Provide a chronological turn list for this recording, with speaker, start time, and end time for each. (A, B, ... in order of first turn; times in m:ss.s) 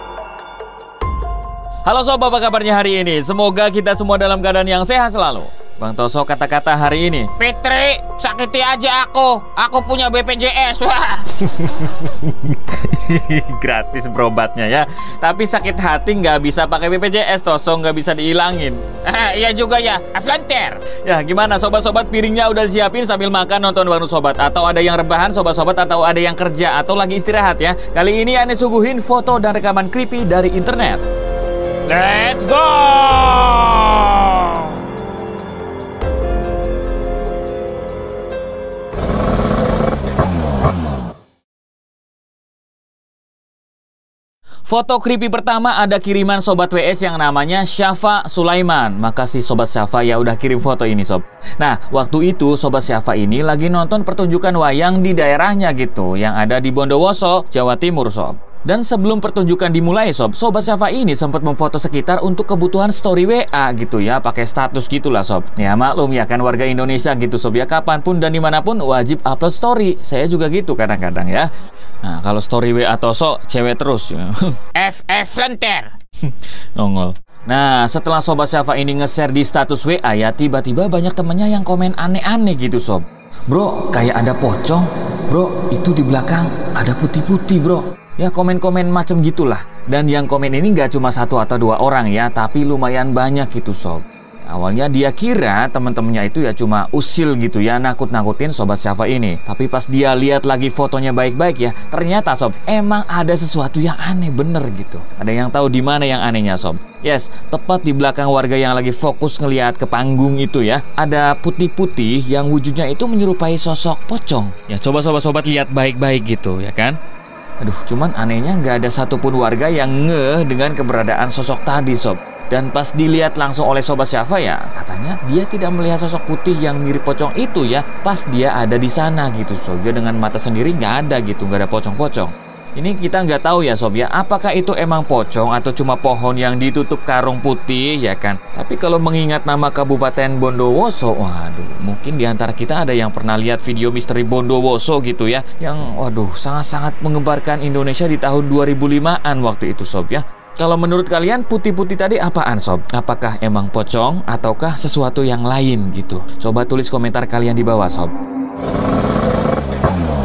0:01.9-0:07.3 A
0:07.4-0:11.4 B
0:11.4-0:19.0 A
0:19.0-0:20.8 B
0:20.8-0:31.0 A
0:31.9-0:34.8 B
0:44.7-1:11.5 A
1:12.0-1:14.6 A
1:14.8-1:15.9 B
1:16.3-1:57.0 A
1:57.6-2:38.1 A